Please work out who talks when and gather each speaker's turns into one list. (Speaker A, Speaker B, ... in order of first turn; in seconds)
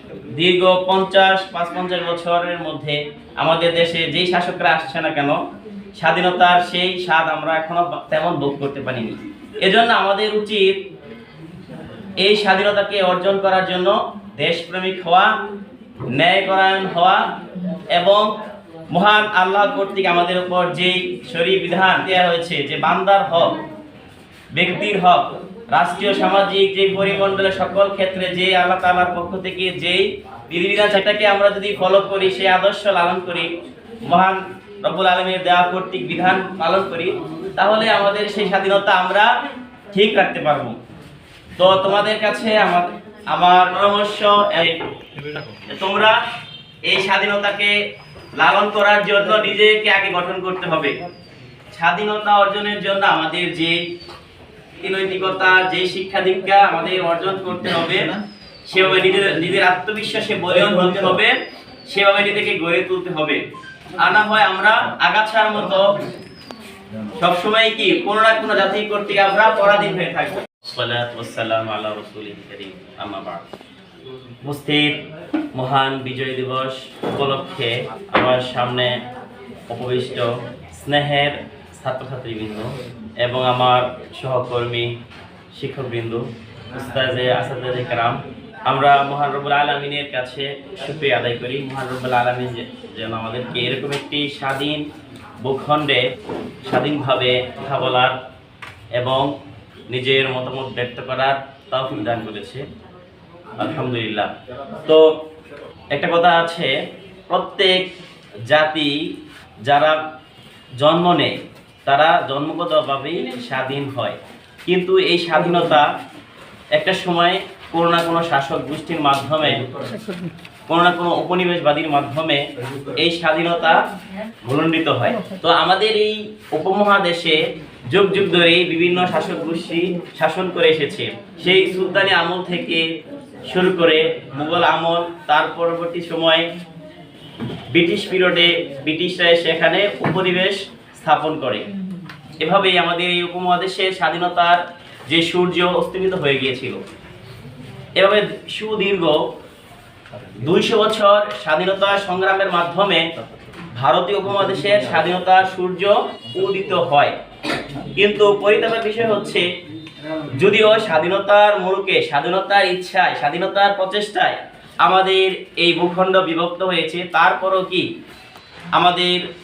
Speaker A: 0.3-5.4, 6.0-10.8, 12.2-15.3, 16.1-17.3, 17.9-18.3, 18.9-23.6, 24.5-33.5, 34.1-39.3, 39.9-40.8, 41.6-44.8, 45.6-46.2, 46.9-47.8, 48.4-51.0, 51.7-53.8, 54.8-61.4, 61.9-63.4, 64.0-65.9, 67.2-73.4, 74.4-75.0, 75.5-79.0, 79.7-85.0, 85.5-94.8, 95.4-96.0, 96.7-98.2, 99.0-99.3, 99.9-102.7, 103.6-104.3, 104.8-105.1, 105.9-106.7, 107.3-107.9, 108.5-109.0, 109.6-110.0, 110.8-115.9, 116.7-119.6, 120.7-122.4, 123.0-123.8, 124.5-127.4, 127.9-132.9, 133.5-136.4, 137.7-141.7, 142.4-146.8, 148.0-149.2, 150.4-153.1, 153.7-157.1, 158.0-159.5, 160.3-167.9, 168.8-169.2